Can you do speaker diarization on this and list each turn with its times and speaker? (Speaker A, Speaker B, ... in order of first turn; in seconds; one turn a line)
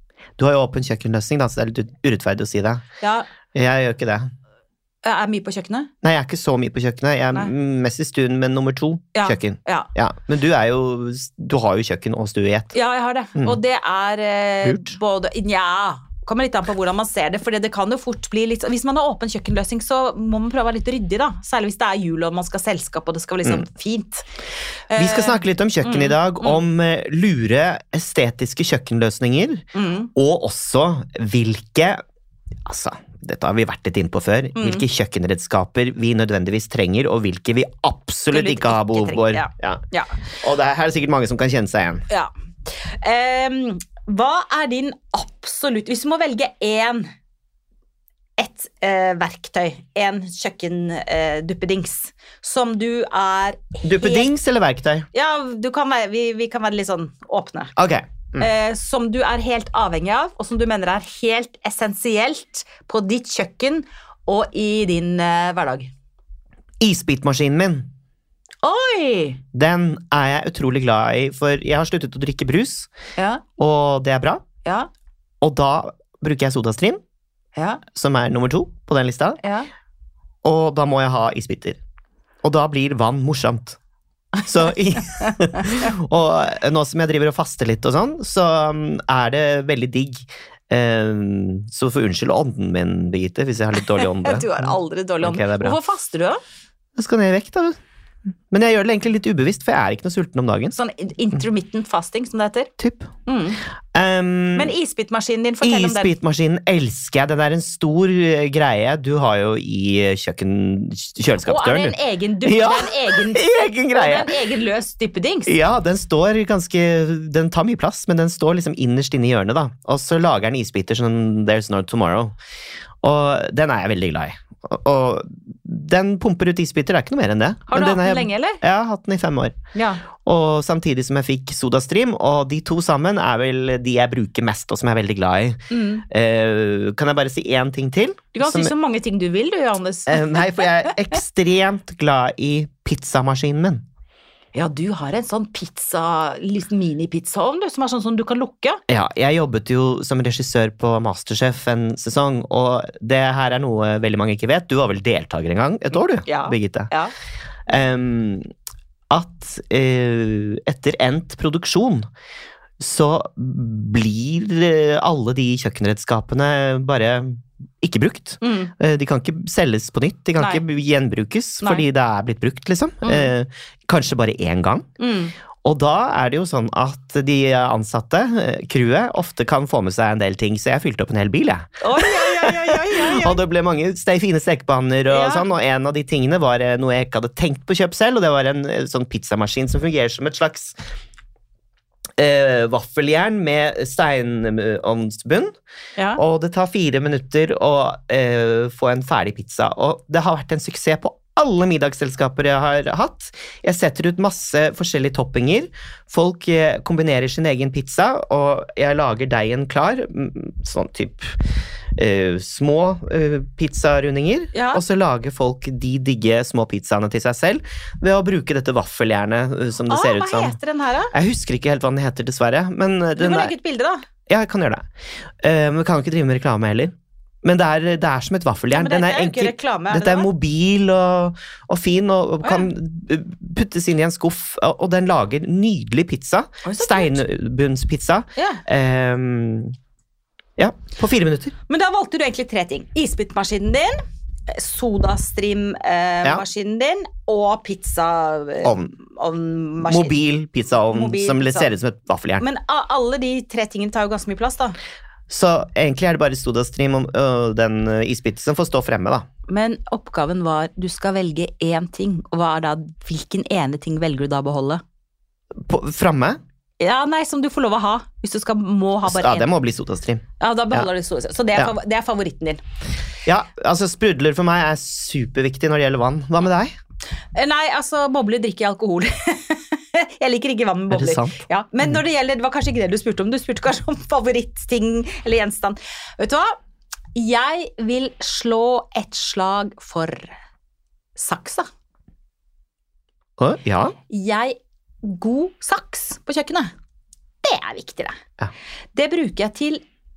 Speaker A: 0.4-2.8
Speaker B: 3.0-3.3
Speaker A: 3.5-4.3
Speaker B: 5.0-5.9
Speaker A: 6.0-12.7
Speaker B: 9.2-9.9
Speaker B: 12.7-24.3
Speaker A: 14.6-14.9
Speaker B: 24.9-26.6
Speaker A: 25.0-32.0
Speaker B: 29.7-30.1
Speaker A: 32.7-39.8
Speaker B: 34.6-34.9
Speaker B: 38.3-40.3
Speaker A: 40.4-42.0
Speaker B: 42.9-47.1
Speaker B: 48.4-54.3
Speaker A: 53.8-55.1
Speaker B: 55.1-57.7
Speaker A: 57.8-58.5
Speaker B: 58.4-65.9
Speaker A: 66.8-67.9
Speaker B: 68.6-69.4
Speaker A: 69.5-72.9
Speaker B: 73.2-73.4
Speaker A: 73.6-74.4
Speaker B: 74.7-74.9
Speaker A: 75.4-77.0
Speaker B: 77.6-77.8
Speaker A: 77.9-79.4
Speaker B: 79.4-79.7
Speaker A: 80.4-81.8
Speaker A: 82.4-83.8
Speaker A: 84.4-95.8
Speaker B: 93.8-96.4
Speaker A: 97.0-97.8
Speaker A: 98.5-100.8
Speaker B: 100.7-102.7
Speaker A: 102.8-103.1
Speaker B: 103.3-103.6
Speaker A: 103.9-104.7
Speaker B: 104.5-106.1
Speaker A: 105.6-114.3
Speaker B: 111.4-115.5
Speaker A: 115.5-122.3
Speaker A: 123.0-129.6
Speaker B: 127.7-128.6
Speaker B: 129.7-130.1
Speaker A: 130.2-138.7
Speaker B: 135.7-136.1
Speaker B: 138.3-141.0
Speaker A: 140.1-143.8
Speaker B: 144.5-148.8
Speaker A: 148.9-156.9
Speaker B: 156.2-157.1
Speaker A: 157.7-158.5
Speaker A: 159.1-162.1
Speaker A: 162.8-174.9
Speaker B: 168.4-168.7
Speaker B: 173.0-173.3
Speaker B: 175.0-175.3
Speaker A: 175.6-190.8
Speaker B: 181.8-183.4
Speaker B: 185.1-185.5
Speaker A: 192.2-195.5
Speaker B: 196.0-196.2
Speaker A: 196.2-211.4
Speaker A: 212.0-220.6
Speaker B: 214.5-214.8
Speaker B: 219.9-221.1
Speaker A: 221.1-223.5
Speaker B: 223.2-224.1
Speaker A: 224.3-224.8
Speaker A: 225.4-226.9
Speaker A: 227.4-239.7
Speaker B: 228.7-230.3
Speaker B: 232.4-232.7
Speaker B: 236.6-237.2
Speaker B: 238.4-238.6
Speaker A: 240.6-241.5
Speaker B: 241.7-243.9
Speaker B: 244.5-250.1
Speaker A: 248.6-248.9
Speaker A: 249.8-252.4
Speaker B: 250.9-251.7
Speaker B: 252.4-254.8
Speaker A: 255.3-259.2
Speaker B: 259.5-264.8
Speaker A: 265.6-266.4
Speaker B: 266.8-269.5
Speaker A: 269.1-270.9
Speaker B: 270.4-272.6
Speaker A: 273.3-276.8
Speaker B: 277.3-286.5
Speaker A: 280.9-281.4
Speaker B: 287.1-290.4
Speaker B: 291.2-291.7
Speaker A: 293.4-293.9
Speaker B: 294.1-296.7
Speaker B: 297.4-298.2
Speaker B: 298.9-299.8